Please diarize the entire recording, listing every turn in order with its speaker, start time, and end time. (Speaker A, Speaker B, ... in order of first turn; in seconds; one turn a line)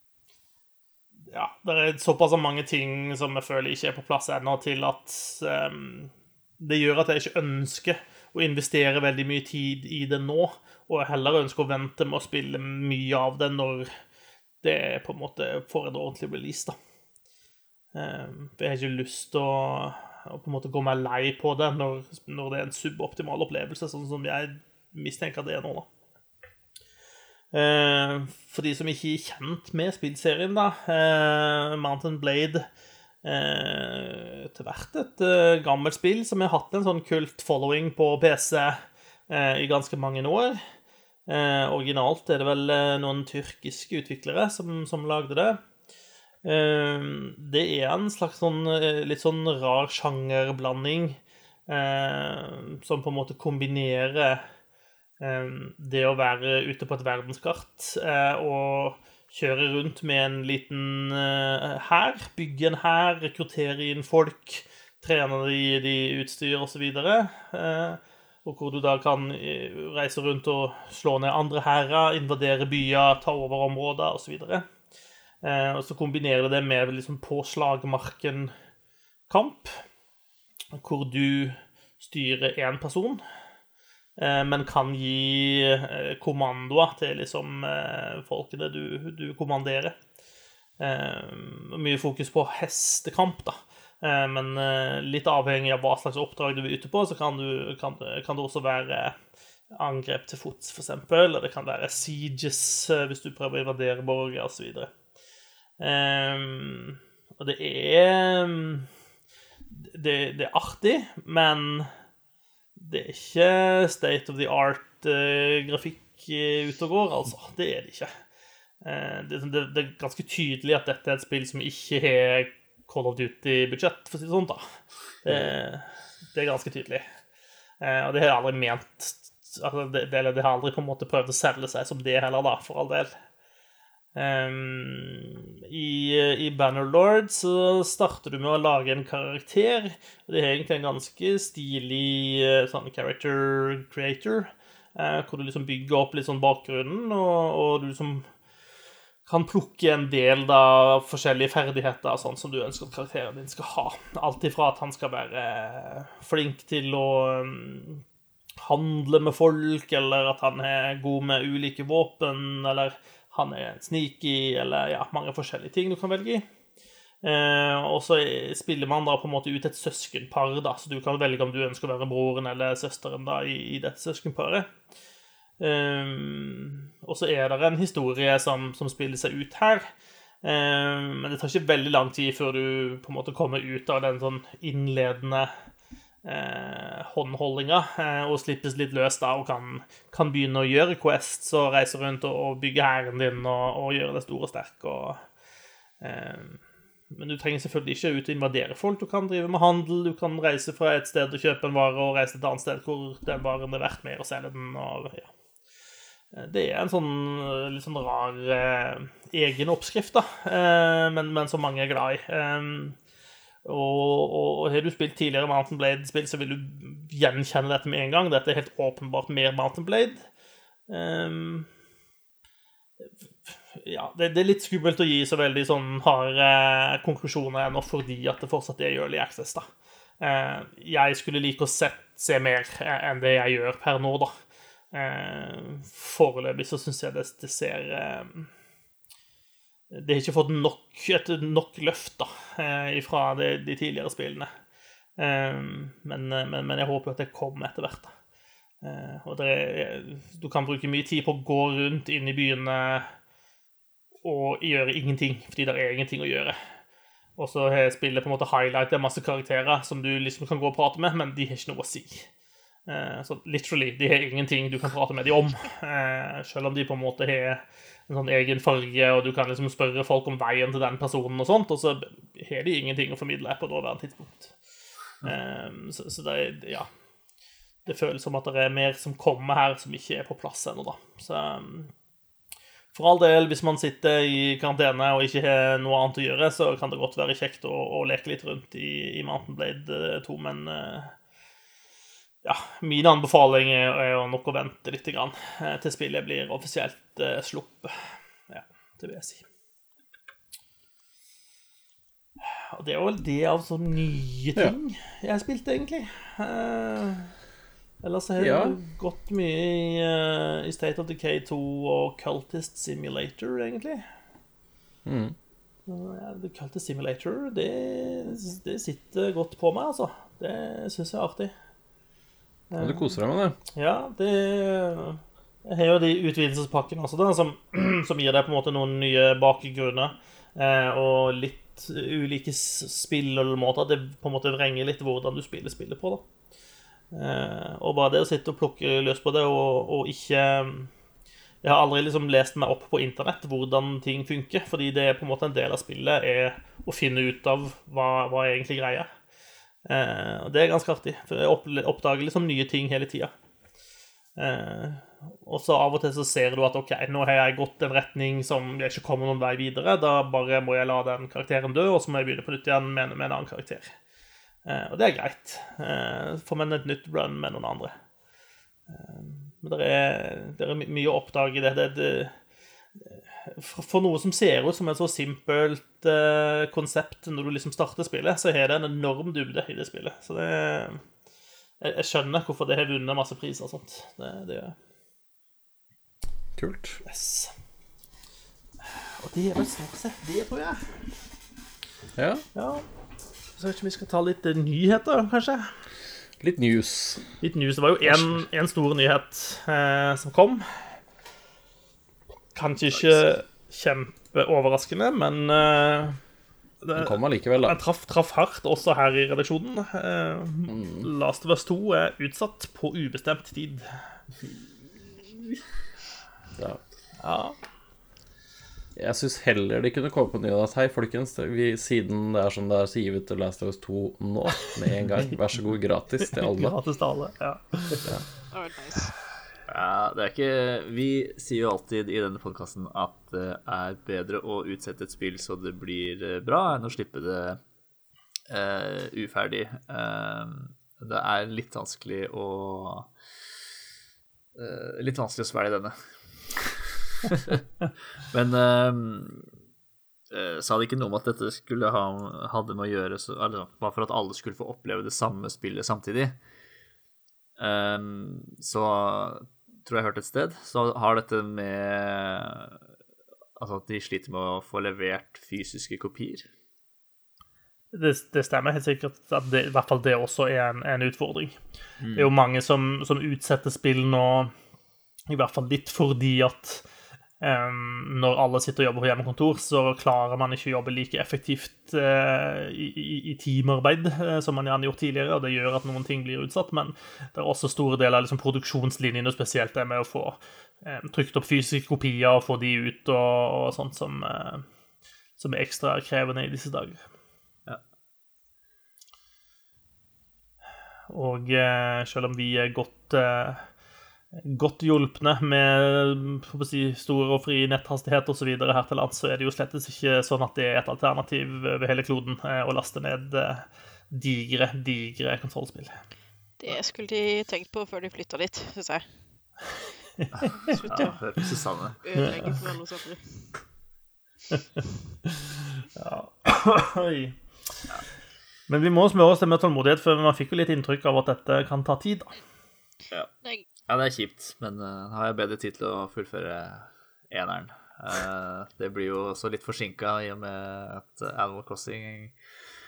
Speaker A: 1.3-13.9
Speaker A: 14.6-16.8
Speaker A: 17.9-25.9
Speaker A: 27.5-32.6
Speaker A: 33.2-40.6
Speaker A: 41.3-45.6
Speaker A: 46.4-54.4
Speaker A: 55.2-74.6
Speaker A: 75.4-78.5
Speaker A: 79.3-79.8
Speaker A: 80.7-83.2
Speaker A: 84.2-89.9
Speaker A: 90.8-99.2
Speaker A: 99.7-104.9
Speaker A: 105.8-108.9
Speaker A: 109.7-111.9
Speaker A: 112.8-118.1
Speaker A: 118.8-124.6
Speaker A: 125.2-127.0
Speaker A: 127.8-133.1
Speaker A: 134.1-148.2
Speaker A: 149.3-158.0
Speaker A: 158.6-166.4
Speaker A: 167.2-174.7
Speaker A: 175.6-179.9
Speaker A: 180.4-185.5
Speaker A: 186.2-195.2
Speaker A: 196.0-196.6
Speaker A: 197.1-205.3
Speaker A: 206.3-213.0
Speaker A: 213.6-220.2
Speaker A: 220.9-221.7
Speaker A: 223.1-229.7
Speaker A: 230.2-234.3
Speaker A: 234.9-238.5
Speaker A: 239.9-244.5
Speaker A: 245.2-248.1
Speaker A: 248.8-253.1
Speaker A: 254.2-256.6
Speaker A: 257.4-262.3
Speaker A: 262.9-274.5
Speaker A: 275.2-276.9
Speaker A: 277.8-281.9
Speaker A: 282.9-291.1
Speaker A: 292.4-297.9
Speaker A: 298.5-299.4
Speaker A: 302.5-307.3
Speaker A: 308.0-314.0
Speaker B: 308.4-308.8
Speaker B: 315.0-315.3
Speaker A: 315.9-321.5
Speaker A: 322.7-323.1
Speaker B: 322.8-323.6
Speaker A: 323.7-336.2
Speaker A: 337.1-340.9
Speaker A: 341.6-349.1
Speaker A: 349.9-353.3
Speaker A: 354.4-363.9
Speaker A: 364.6-367.9
Speaker A: 368.9-372.3
Speaker A: 373.0-381.0
Speaker A: 381.8-384.8
Speaker B: 386.6-387.0
Speaker A: 387.0-387.5
Speaker A: 388.8-391.0
Speaker B: 392.1-392.4
Speaker A: 392.5-392.9
Speaker A: 393.6-395.7
Speaker B: 396.4-397.3
Speaker A: 397.4-400.9
Speaker B: 398.1-398.4
Speaker A: 402.5-406.2
Speaker A: 406.8-413.9
Speaker B: 406.9-407.8
Speaker B: 410.7-411.1
Speaker A: 417.2-417.6
Speaker B: 418.9-426.8
Speaker A: 426.2-428.1
Speaker C: 428.5-429.1
Speaker D: 429.7-437.6
Speaker D: 438.5-443.1
Speaker D: 444.5-447.6
Speaker D: 448.3-449.5
Speaker D: 450.3-456.4
Speaker D: 457.6-462.8
Speaker D: 463.6-466.5
Speaker A: 467.9-471.6
Speaker D: 472.0-472.3
Speaker A: 472.1-474.5
Speaker A: 475.3-476.8
Speaker A: 477.4-494.6
Speaker A: 495.4-497.0
Speaker A: 501.1-503.6
Speaker A: 504.4-515.9
Speaker C: 516.6-519.0
Speaker A: 520.2-520.8
Speaker D: 520.4-522.0
Speaker C: 520.6-521.2
Speaker C: 522.0-523.5
Speaker A: 525.3-527.4
Speaker A: 528.7-532.4
Speaker D: 533.9-542.3